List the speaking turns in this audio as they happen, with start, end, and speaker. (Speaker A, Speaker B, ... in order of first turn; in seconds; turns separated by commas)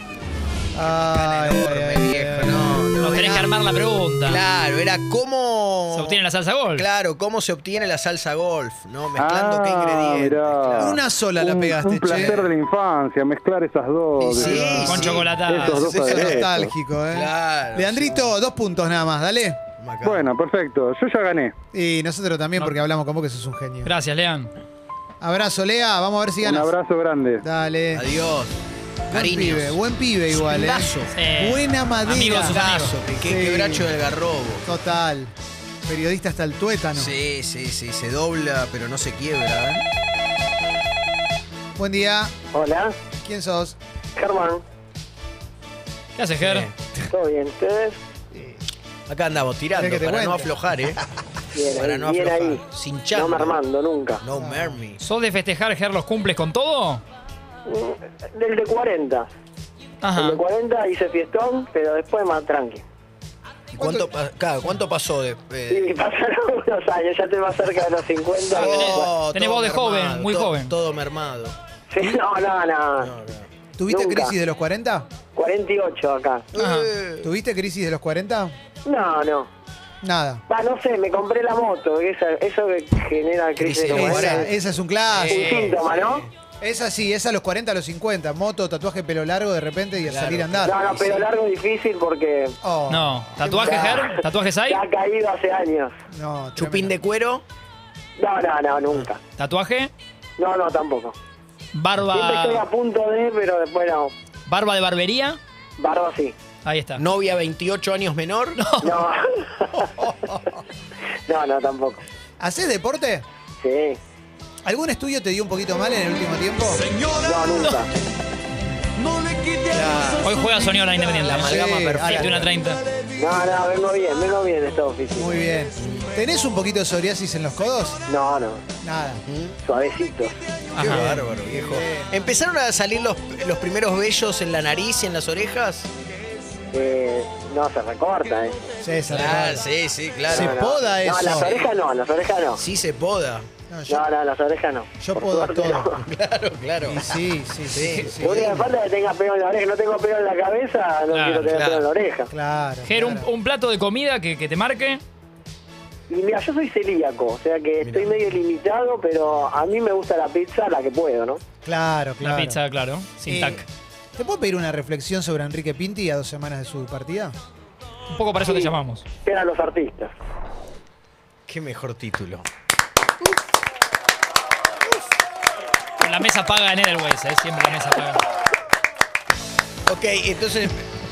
Speaker A: 0.7-3.4, Speaker B: 1.0-3.5, Speaker C: 3.0-4.4, Speaker B: 4.2-6.2, Speaker C: 5.9-6.8, Speaker B: 6.7-11.0, Speaker D: 9.2-16.7, Speaker A: 10.7-12.4, Speaker B: 12.1-12.4, Speaker B: 14.2-16.5, Speaker C: 14.8-15.9, Speaker A: 15.8-19.6, Speaker B: 17.1-18.3, Speaker B: 19.8-20.3, Speaker D: 20.0-21.5, Speaker A: 21.7-23.9, Speaker C: 23.8-24.5, Speaker A: 25.2-26.7, Speaker D: 26.4-27.4, Speaker A: 27.4-28.1, Speaker B: 27.9-28.5, Speaker A: 29.1-33.9, Speaker B: 29.1-29.8, Speaker B: 30.3-31.2, Speaker C: 31.1-32.9, Speaker B: 32.3-34.6, Speaker A: 34.6-35.3, Speaker A: 35.9-37.1, Speaker B: 37.0-39.8, Speaker A: 41.8-42.3, Speaker E: 42.5-43.0, Speaker A: 43.2-43.8, Speaker E: 44.1-44.6, Speaker C: 46.1-46.7, Speaker B: 46.4-46.7, Speaker E: 47.1-48.0, Speaker A: 48.3-48.6, Speaker B: 49.1-51.0, Speaker A: 49.7-50.5, Speaker E: 51.5-54.2, Speaker B: 51.6-53.6, Speaker B: 54.2-55.0, Speaker A: 54.3-54.8, Speaker C: 55.0-57.0, Speaker E: 57.6-59.3, Speaker C: 60.0-60.4, Speaker E: 60.1-62.8, Speaker B: 63.7-65.9, Speaker A: 63.8-64.1, Speaker E: 65.7-69.1, Speaker B: 68.5-71.5, Speaker C: 68.6-70.7, Speaker E: 71.9-73.1, Speaker B: 73.0-73.5, Speaker A: 73.8-75.1, Speaker E: 73.9-74.3, Speaker E: 75.3-76.5, Speaker B: 76.5-77.3, Speaker C: 76.5-76.9, Speaker A: 77.2-78.5, Speaker E: 78.8-79.5, Speaker A: 80.0-80.4, Speaker E: 80.5-84.5, Speaker B: 83.6-84.5, Speaker A: 83.9-85.7, Speaker B: 85.0-86.3, Speaker E: 85.3-86.2, Speaker A: 86.6-90.8, Speaker B: 90.0-91.2, Speaker E: 90.6-92.6, Speaker A: 92.6-94.0, Speaker C: 92.9-94.8, Speaker E: 93.5-95.9, Speaker A: 96.1-96.9, Speaker B: 96.5-97.4, Speaker E: 98.2-99.2, Speaker C: 99.4-99.9, Speaker E: 100.4-101.2, Speaker C: 101.7-102.7, Speaker E: 102.1-104.1, Speaker C: 104.5-105.4, Speaker E: 105.8-106.3, Speaker C: 106.6-107.0, Speaker B: 107.0-108.6, Speaker C: 108.6-109.1, Speaker E: 108.8-109.9, Speaker B: 109.8-110.5, Speaker E: 111.3-112.0, Speaker A: 112.4-113.2, Speaker E: 113.6-114.0, Speaker A: 114.6-116.8, Speaker E: 117.1-117.9, Speaker B: 119.7-120.2, Speaker A: 119.8-120.2, Speaker C: 120.2-122.8, Speaker B: 121.1-122.5, Speaker A: 121.2-122.5, Speaker E: 123.2-125.3, Speaker A: 125.2-128.0, Speaker B: 125.8-126.1, Speaker E: 128.1-128.6, Speaker A: 128.8-129.2, Speaker B: 129.2-129.6, Speaker E: 129.6-130.3, Speaker C: 130.7-131.2, Speaker B: 130.8-135.9, Speaker A: 130.8-132.2, Speaker E: 136.7-138.6, Speaker A: 138.8-139.7, Speaker B: 139.1-140.6, Speaker E: 140.3-142.6, Speaker A: 140.3-141.5, Speaker B: 141.3-141.6, Speaker B: 142.6-143.5, Speaker A: 143.7-144.1, Speaker E: 143.9-146.0, Speaker A: 145.0-145.9, Speaker B: 146.0-147.0, Speaker A: 146.8-148.7, Speaker B: 147.7-148.6, Speaker E: 148.2-152.3, Speaker C: 151.1-151.5, Speaker B: 151.5-151.9, Speaker A: 152.3-153.3, Speaker C: 152.8-155.0, Speaker E: 156.1-161.4, Speaker B: 157.8-158.1, Speaker A: 161.6-162.6, Speaker C: 162.2-163.6, Speaker A: 163.2-163.6, Speaker A: 164.1-167.4, Speaker C: 168.1-169.0, Speaker E: 168.4-168.7, Speaker E: 169.2-170.1, Speaker B: 171.5-172.4, Speaker C: 176.0-178.2, Speaker B: 179.8-180.9